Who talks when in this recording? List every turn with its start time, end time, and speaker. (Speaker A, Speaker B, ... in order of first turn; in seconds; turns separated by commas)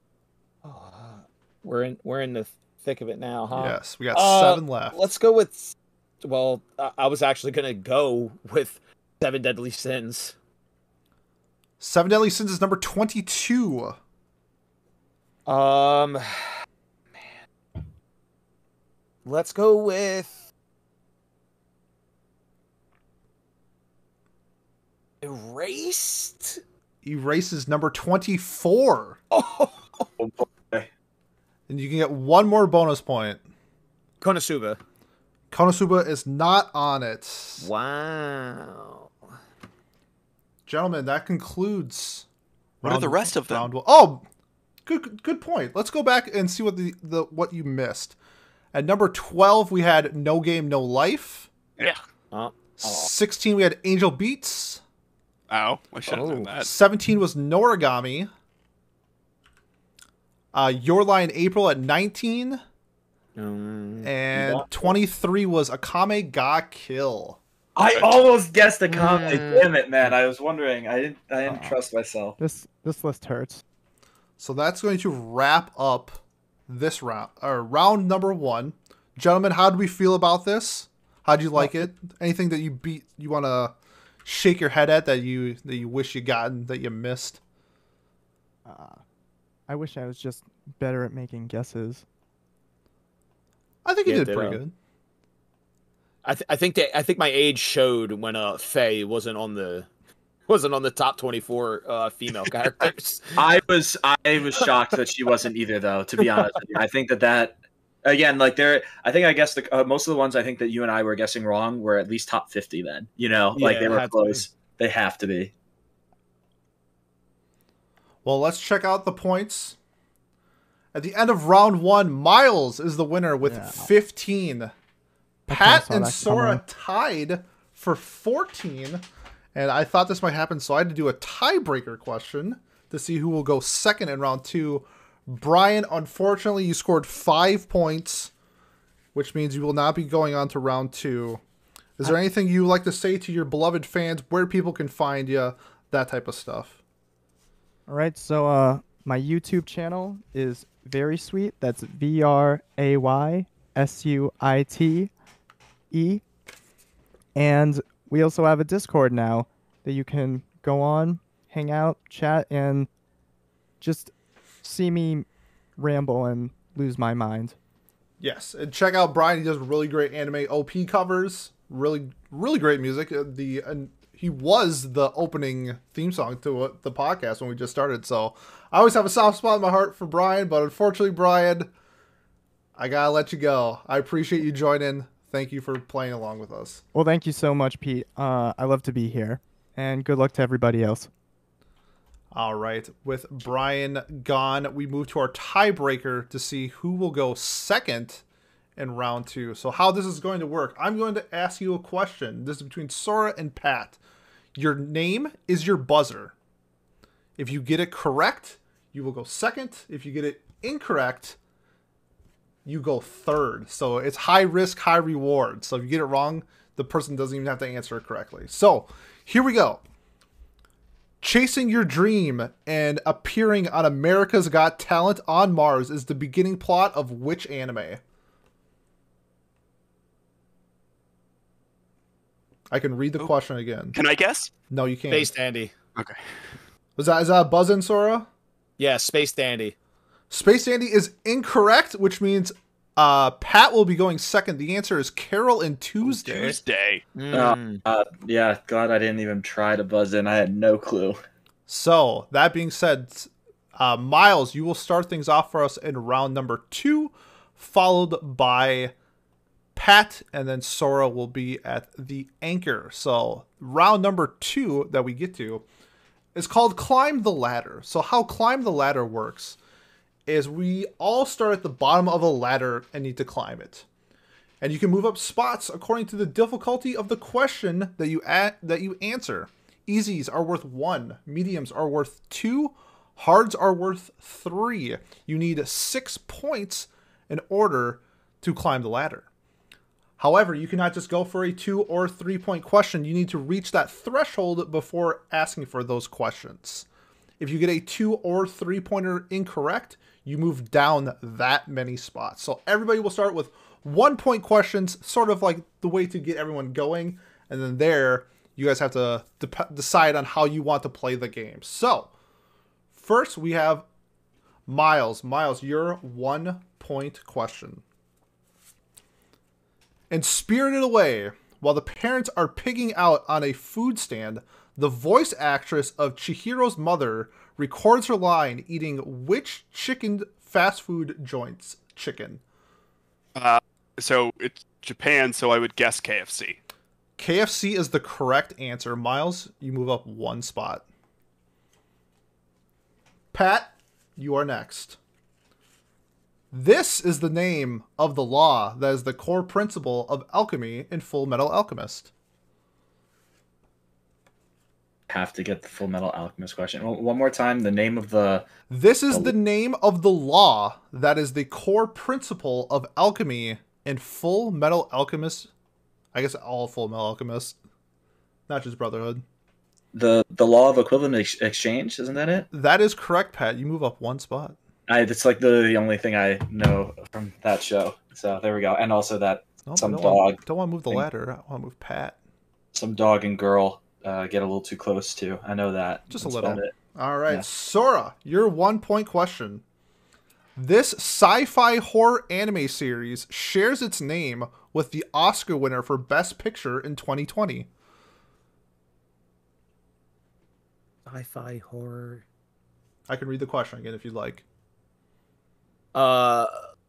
Speaker A: 0.6-10.3, Speaker B: 3.5-5.0, Speaker B: 11.8-14.0, Speaker A: 15.5-16.6, Speaker A: 19.2-20.4, Speaker A: 25.2-26.6, Speaker B: 27.0-29.2, Speaker A: 29.3-30.1, Speaker C: 30.2-30.9, Speaker B: 31.7-33.4, Speaker A: 34.2-34.8, Speaker B: 35.5-37.7, Speaker A: 37.6-39.1, Speaker B: 40.6-42.2, Speaker B: 42.8-44.2, Speaker D: 42.8-43.7, Speaker B: 44.9-48.1, Speaker B: 48.7-51.5, Speaker A: 52.3-53.1, Speaker B: 52.8-54.8, Speaker D: 55.5-56.7, Speaker A: 56.1-56.5, Speaker B: 56.5-58.3, Speaker B: 60.5-62.6, Speaker A: 63.4-64.1, Speaker B: 64.0-67.4, Speaker C: 64.3-64.9, Speaker C: 67.8-72.4, Speaker A: 68.9-69.7, Speaker E: 71.5-71.8, Speaker E: 72.4-73.6, Speaker B: 74.4-83.7, Speaker E: 81.6-81.9, Speaker B: 84.2-87.4, Speaker E: 88.7-89.0, Speaker E: 89.7-92.0, Speaker B: 93.8-94.7, Speaker A: 94.0-94.6, Speaker A: 96.2-99.9, Speaker A: 100.5-103.4, Speaker C: 103.3-115.5, Speaker A: 113.5-114.4, Speaker B: 118.2-119.8, Speaker B: 120.9-124.7, Speaker E: 123.4-123.9, Speaker B: 125.5-138.3, Speaker E: 125.5-126.6, Speaker B: 139.1-141.4, Speaker B: 142.0-146.8, Speaker E: 147.9-155.1, Speaker E: 155.9-156.2, Speaker E: 157.3-162.9, Speaker E: 163.8-164.1, Speaker E: 164.6-165.2, Speaker E: 165.8-167.5, Speaker B: 168.2-181.7, Speaker B: 182.8-186.8, Speaker E: 186.9-191.1, Speaker B: 192.3-198.2, Speaker B: 198.8-204.0, Speaker B: 204.5-206.3, Speaker B: 207.4-211.4, Speaker B: 212.6-219.8, Speaker B: 221.2-228.0, Speaker B: 232.7-234.0, Speaker D: 233.9-234.5, Speaker B: 234.7-235.3, Speaker A: 235.1-235.7, Speaker B: 236.9-238.3, Speaker A: 238.8-239.7, Speaker B: 240.3-246.6, Speaker D: 246.0-247.0, Speaker A: 247.1-247.8, Speaker C: 247.3-251.2, Speaker B: 251.7-258.9, Speaker B: 259.7-265.6, Speaker B: 266.3-269.6, Speaker B: 270.3-273.9, Speaker B: 274.6-289.3, Speaker B: 290.2-296.9, Speaker B: 297.4-312.1, Speaker B: 312.9-313.8, Speaker B: 314.7-317.8, Speaker B: 320.1-332.4, Speaker D: 333.4-336.6, Speaker B: 337.2-340.8, Speaker B: 343.3-345.0, Speaker B: 346.5-352.1, Speaker C: 355.1-358.4, Speaker B: 358.7-365.5, Speaker B: 366.1-367.6, Speaker B: 368.5-369.2, Speaker C: 369.9-372.5, Speaker B: 372.5-374.6, Speaker C: 374.9-380.4, Speaker B: 379.6-382.1, Speaker C: 382.7-386.7, Speaker B: 386.1-389.6, Speaker B: 390.6-397.7, Speaker A: 401.1-402.2, Speaker B: 403.1-404.4, Speaker A: 405.9-406.5